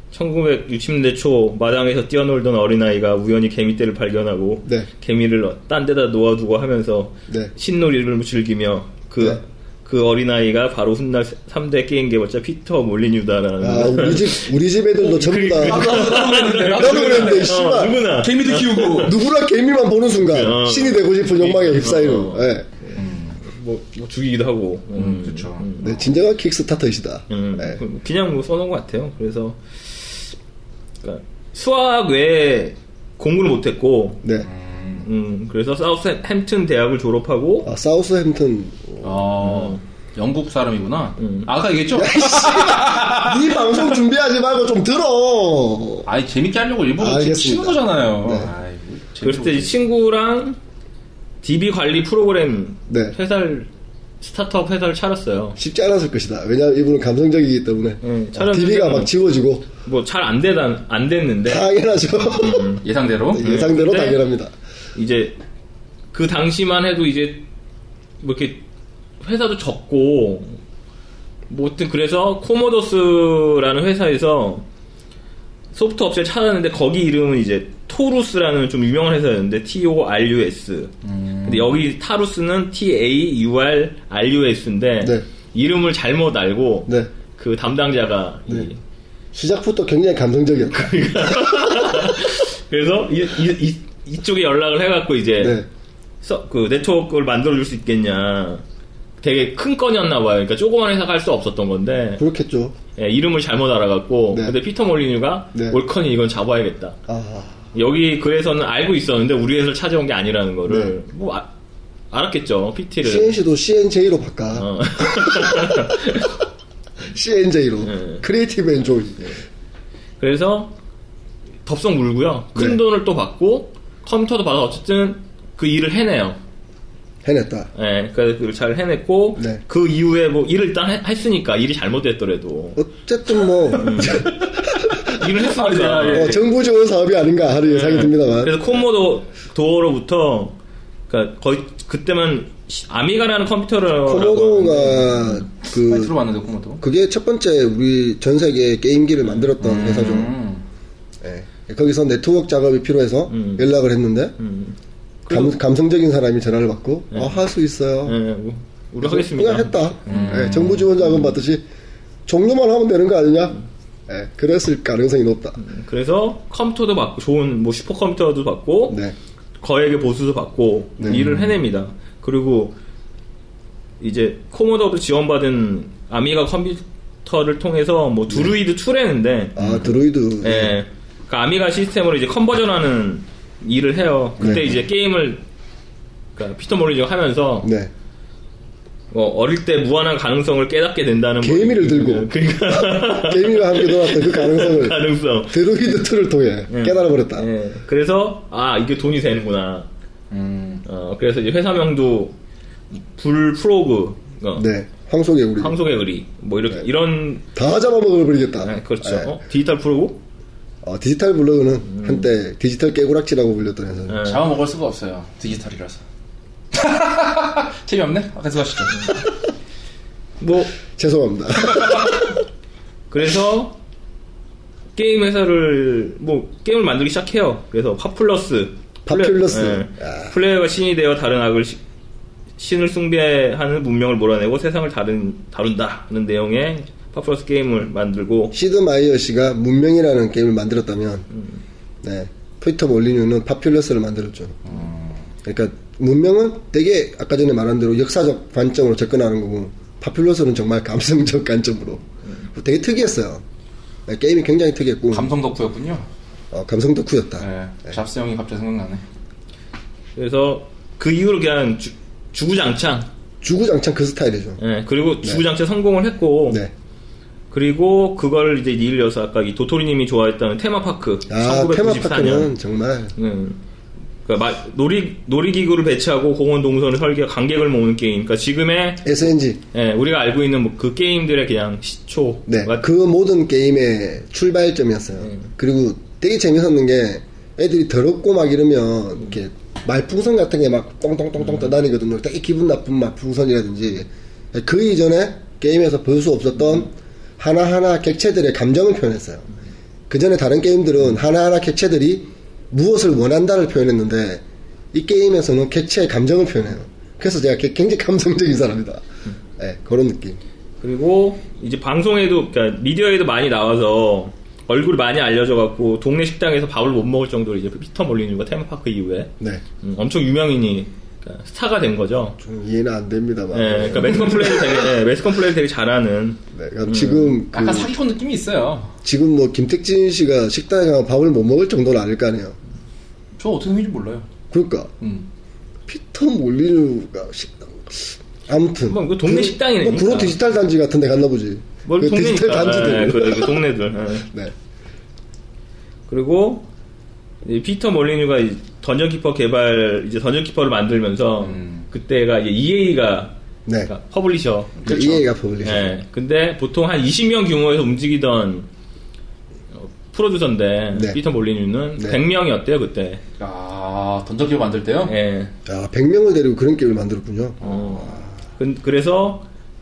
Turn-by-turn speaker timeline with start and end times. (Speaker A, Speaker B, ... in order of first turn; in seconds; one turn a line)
Speaker A: 0.1-19.1
Speaker B: 13.6-18.0
Speaker C: 15.6-19.2
Speaker B: 19.0-22.7
Speaker A: 20.2-26.0
Speaker C: 23.0-23.4
Speaker C: 24.9-25.7
Speaker B: 25.8-27.8
Speaker A: 27.3-30.2
Speaker A: 31.0-34.2
Speaker C: 34.4-35.1
Speaker A: 35.0-37.7
Speaker B: 37.6-39.3
Speaker C: 39.0-43.5
Speaker A: 39.4-39.8
Speaker A: 41.2-41.5
Speaker B: 41.9-46.1
Speaker C: 46.0-49.7
Speaker B: 47.0-48.5
Speaker A: 49.2-50.6
Speaker A: 51.4-55.6
Speaker B: 52.9-53.1
Speaker B: 55.6-59.7
Speaker A: 58.0-59.1
Speaker A: 59.8-61.7
Speaker B: 61.4-62.7
Speaker A: 62.2-62.8
Speaker C: 62.8-63.4
Speaker B: 63.3-64.5
Speaker A: 63.4-64.2
Speaker A: 64.9-65.4
Speaker A: 66.1-67.5
Speaker A: 68.2-68.6
Speaker A: 69.2-70.6
Speaker A: 71.5-74.6
Speaker A: 75.7-80.9
Speaker C: 81.0-81.8
Speaker A: 81.4-88.8
Speaker B: 89.3-92.2
Speaker A: 90.7-95.6
Speaker B: 95.4-95.7
Speaker A: 96.2-98.6
Speaker A: 99.2-102.2
Speaker B: 102.2-102.7
Speaker A: 103.0-107.0
Speaker B: 107.1-107.6
Speaker A: 107.7-111.5
Speaker B: 110.7-110.9
Speaker A: 112.1-113.4
Speaker B: 113.0-115.8
Speaker A: 114.5-116.3
Speaker B: 117.1-119.4
Speaker A: 117.8-118.2
Speaker A: 120.2-120.7
Speaker A: 121.7-126.4
Speaker B: 127.2-127.7
Speaker A: 127.7-132.8
Speaker B: 132.8-135.2
Speaker A: 133.7-136.4
Speaker C: 135.4-136.5
Speaker B: 136.1-138.8
Speaker A: 137.6-140.6
Speaker A: 141.1-145.4
Speaker B: 144.0-146.1
Speaker C: 145.7-146.8
Speaker B: 146.8-150.3
Speaker C: 149.6-150.6
Speaker B: 151.2-154.3
Speaker A: 153.3-153.7
Speaker A: 154.4-155.6
Speaker B: 155.3-158.2
Speaker A: 158.0-160.5
Speaker B: 159.0-161.6
Speaker C: 160.1-160.9
Speaker A: 161.0-161.3
Speaker B: 162.2-165.6
Speaker A: 165.6-169.0
Speaker B: 168.9-169.1
Speaker A: 169.6-172.8
Speaker B: 171.0-171.4
Speaker A: 174.0-185.4
Speaker B: 179.6-180.7
Speaker B: 184.4-184.6
Speaker A: 186.3-187.7
Speaker B: 187.6-187.9
Speaker A: 189.1-195.6
Speaker B: 191.4-197.4
Speaker A: 196.7-199.9
Speaker C: 200.3-200.8
Speaker A: 200.8-202.3
Speaker A: 202.9-204.7
Speaker B: 204.6-205.8
Speaker A: 205.6-207.5
Speaker B: 207.5-209.3
Speaker A: 208.6-210.2
Speaker B: 210.8-214.3
Speaker A: 211.8-212.3
Speaker A: 214.1-214.5
Speaker C: 214.2-216.0
Speaker C: 216.7-219.1
Speaker A: 220.4-220.7
Speaker B: 220.9-222.4
Speaker A: 223.1-223.8
Speaker A: 224.9-231.8
Speaker B: 229.1-230.3
Speaker A: 232.6-238.6
Speaker B: 238.5-241.3
Speaker B: 242.0-244.8
Speaker C: 244.7-245.2
Speaker B: 245.4-253.4
Speaker B: 254.1-255.3
Speaker C: 255.1-256.1
Speaker B: 256.5-257.4
Speaker C: 257.4-259.0
Speaker A: 260.1-263.1
Speaker B: 263.4-264.6
Speaker A: 264.6-266.6
Speaker A: 267.5-272.5
Speaker B: 271.3-273.1
Speaker A: 273.1-273.6
Speaker A: 274.2-279.1
Speaker B: 279.0-279.6
Speaker A: 279.7-282.8
Speaker B: 282.5-299.5
Speaker B: 300.1-310.4
Speaker A: 310.8-322.4
Speaker B: 322.4-324.9
Speaker A: 323.5-327.4
Speaker B: 326.5-327.9
Speaker C: 327.5-328.9
Speaker B: 329.0-332.6
Speaker C: 333.4-334.3
Speaker B: 334.5-334.9
Speaker C: 335.0-335.3
Speaker B: 335.9-343.6
Speaker A: 338.9-340.4
Speaker A: 341.8-344.3
Speaker B: 344.3-344.5
Speaker A: 346.1-346.7
Speaker A: 347.4-353.3
Speaker C: 351.4-351.9
Speaker B: 353.6-353.9
Speaker A: 353.8-355.0
Speaker C: 354.8-355.2
Speaker B: 354.8-355.9
Speaker A: 355.6-358.7
Speaker A: 359.7-363.2
Speaker B: 360.9-361.2
Speaker C: 363.4-365.1
Speaker A: 365.1-365.5
Speaker B: 365.6-368.2
Speaker A: 367.6-369.4